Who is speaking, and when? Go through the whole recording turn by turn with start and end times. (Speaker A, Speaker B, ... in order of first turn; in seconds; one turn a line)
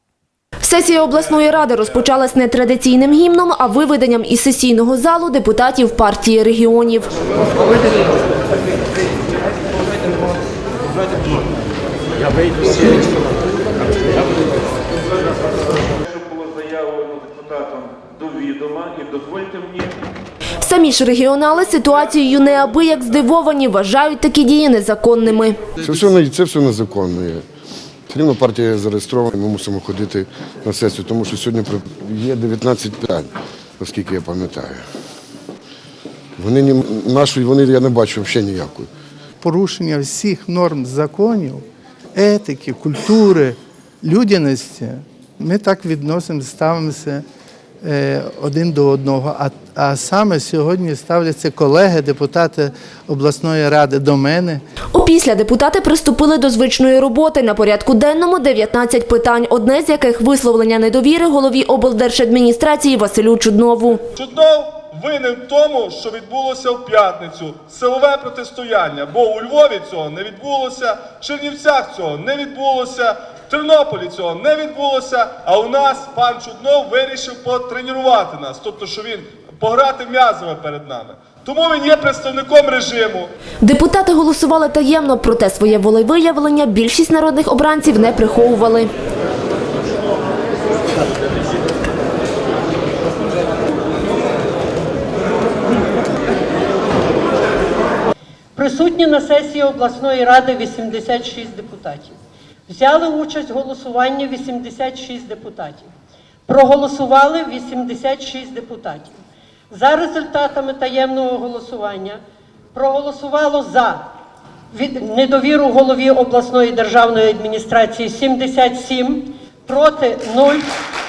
Speaker A: 0.6-7.1
Speaker B: 16.1-20.0
Speaker A: 20.6-25.6
Speaker C: 25.8-27.4
Speaker C: 28.1-33.3
Speaker C: 33.8-34.8
Speaker C: 36.4-38.9
Speaker D: 39.4-47.2
Speaker D: 47.8-54.6
Speaker A: 54.9-64.0
Speaker E: 64.1-83.3
Speaker A: 83.6-88.9
Speaker F: 98.5-102.1
Speaker F: 102.7-105.9
Speaker F: 106.5-109.1
Speaker F: 109.7-112.2
Speaker F: 112.7-114.0
Speaker F: 114.7-120.7